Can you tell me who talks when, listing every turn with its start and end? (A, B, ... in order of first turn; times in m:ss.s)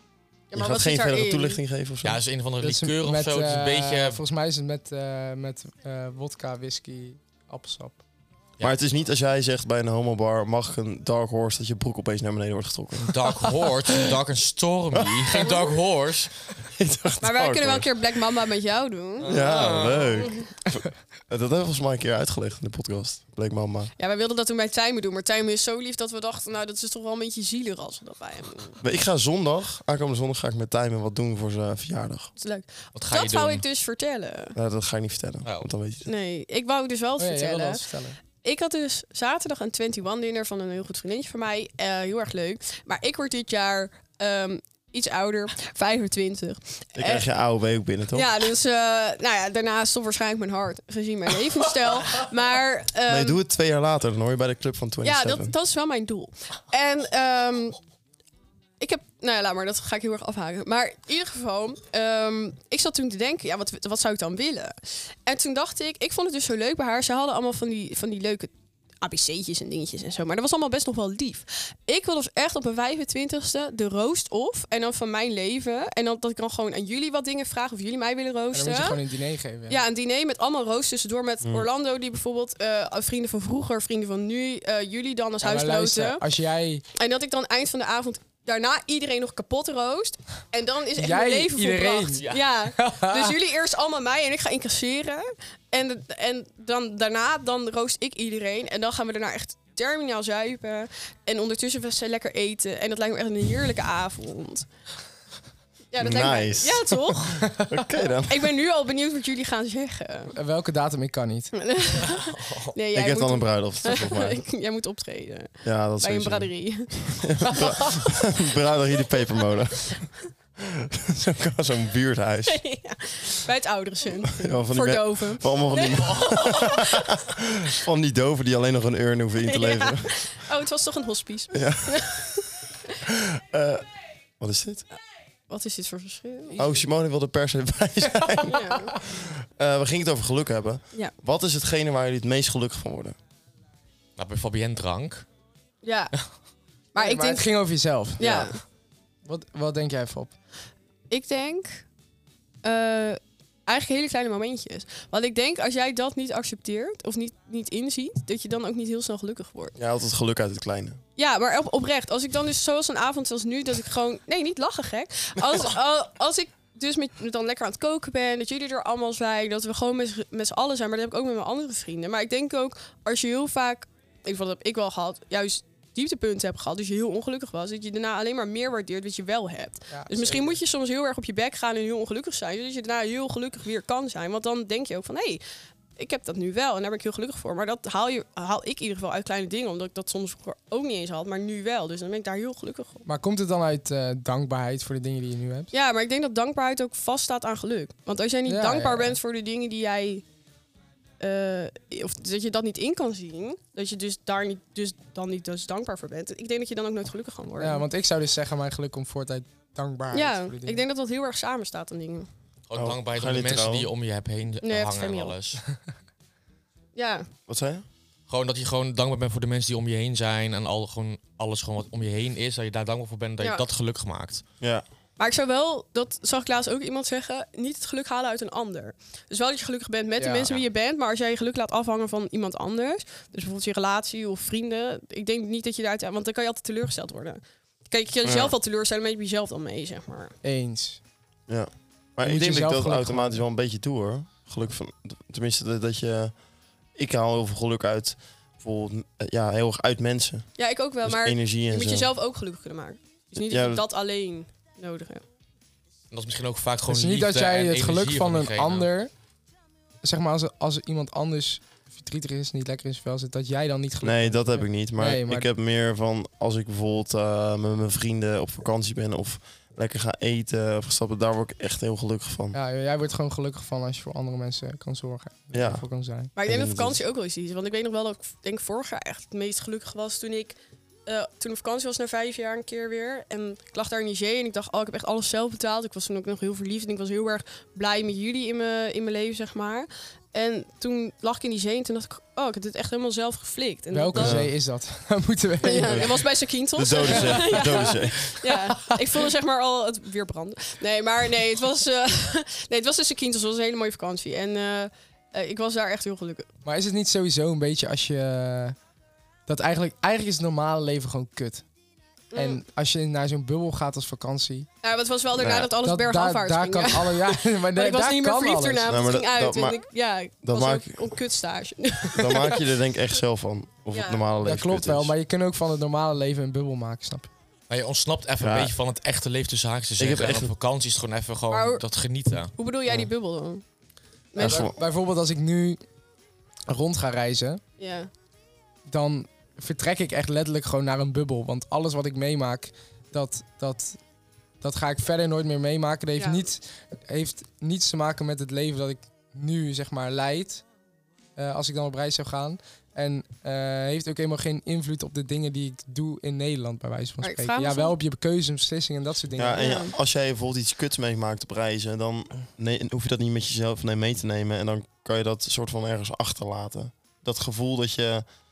0:00.5-0:01.6 A
0:00.5-0:02.2 B
0:02.0-0:04.2 C
0:02.6-0:08.0 D
0:08.6-0:13.2 B
0:13.0-0:16.5 C
0:14.9-0:15.4 B
0:15.4-0:15.8 A
0:16.7-0:18.2 B
0:17.2-0:19.4 A
0:19.2-0:20.3 C
0:19.3-0:23.9 B
0:24.0-0:28.8 A
0:28.8-0:32.3 B
0:32.4-0:34.6 A
0:32.9-0:33.6 C
0:34.5-0:36.1 B
0:35.4-0:35.7 C
0:36.0-0:37.8 A
0:37.2-0:38.2 D
0:38.4-0:47.2 A
0:46.9-0:48.4 B
0:48.1-0:53.4 A
0:53.1-0:55.5 B
0:55.0-0:57.8 A
0:58.8-1:08.5 A
1:09.0-1:19.0 A
1:18.5-1:19.8 D
1:19.7-1:26.2 A
1:25.4-1:26.8 D
1:27.0-1:44.7 A
1:31.0-1:33.3 D
1:45.9-1:47.6 A
1:46.0-1:48.5 B
1:48.2-1:50.3 A
1:50.3-1:51.5 D
1:51.5-1:58.3 A
1:52.0-1:52.8 C
1:52.9-1:54.4 B
1:55.6-2:00.1 B
2:00.6-2:02.6 B
2:02.5-2:07.2 A
2:04.2-2:10.2 B
2:09.5-2:12.4 A
2:11.5-2:12.4 B
2:13.1-2:13.8 B
2:14.4-2:14.8 B
2:15.5-2:16.7 A
2:16.6-2:23.2 B
2:18.4-2:18.9 A
2:24.2-2:25.2 C
2:25.8-2:26.2 A
2:26.9-2:27.5 A
2:27.0-2:28.2 D
2:28.2-2:28.6 A
2:29.2-2:30.3 D
2:31.1-2:31.8 A
2:32.6-2:39.7 A
2:39.8-2:41.0 B
2:41.2-3:05.4 A
2:59.9-3:00.6 D
3:06.0-3:13.0 A
3:13.1-3:15.7 D
3:15.7-3:20.2 A
3:18.4-3:19.2 D
3:21.2-3:27.8 A
3:27.6-3:30.8 D
3:30.1-3:32.3 A
3:32.7-3:35.6 C
3:32.7-3:33.9 B
3:34.6-3:35.4 A
3:37.0-3:37.3 A
3:37.5-3:37.8 B
3:38.3-3:44.4 C
3:45.2-4:00.3 A
3:50.2-3:50.5 D
3:58.2-3:58.5 B
4:00.4-4:01.0 D
4:01.5-4:06.3 B
4:02.2-4:03.4 D
4:07.0-4:10.5 B
4:10.6-4:15.2 A
4:11.0-4:12.1 B
4:13.4-4:13.8 B
4:16.1-4:18.9 C
4:16.9-4:19.1 D
4:20.0-4:25.5 D
4:24.0-4:32.6 B
4:32.5-4:36.3 D
4:35.5-4:35.8 B
4:36.4-4:54.4 A
4:36.4-4:37.0 B
4:53.9-4:56.1 D
4:54.2-4:54.5 B
4:55.6-5:06.5 A
4:55.8-4:56.2 B
4:56.7-4:58.3 B
4:57.1-4:57.9 D
4:58.4-4:59.0 D
5:06.6-5:08.8 D
5:09.5-5:11.6 D
5:12.3-5:12.6 A
5:12.3-5:14.7 D
5:14.8-5:22.7 A
5:15.3-5:15.7 B
5:15.8-5:19.1 D
5:18.8-5:19.8 B
5:20.4-5:21.0 B
5:22.1-5:25.1 B
5:23.9-5:24.2 A
5:24.4-5:27.3 D
5:27.7-5:32.5 C
5:28.4-5:28.7 B
5:30.0-5:30.5 B
5:31.5-5:31.8 A
5:32.6-5:33.6 A
5:34.3-5:34.7 A
5:34.4-5:34.8 B
5:34.4-5:35.8 D
5:36.7-5:37.6 D
5:37.8-5:38.1 A
5:38.9-5:44.0 D
5:44.6-5:50.7 D
5:46.2-5:46.4 A
5:51.4-5:59.7 D
5:57.2-5:57.9 A
5:59.4-6:08.2 B
5:59.6-5:59.9 A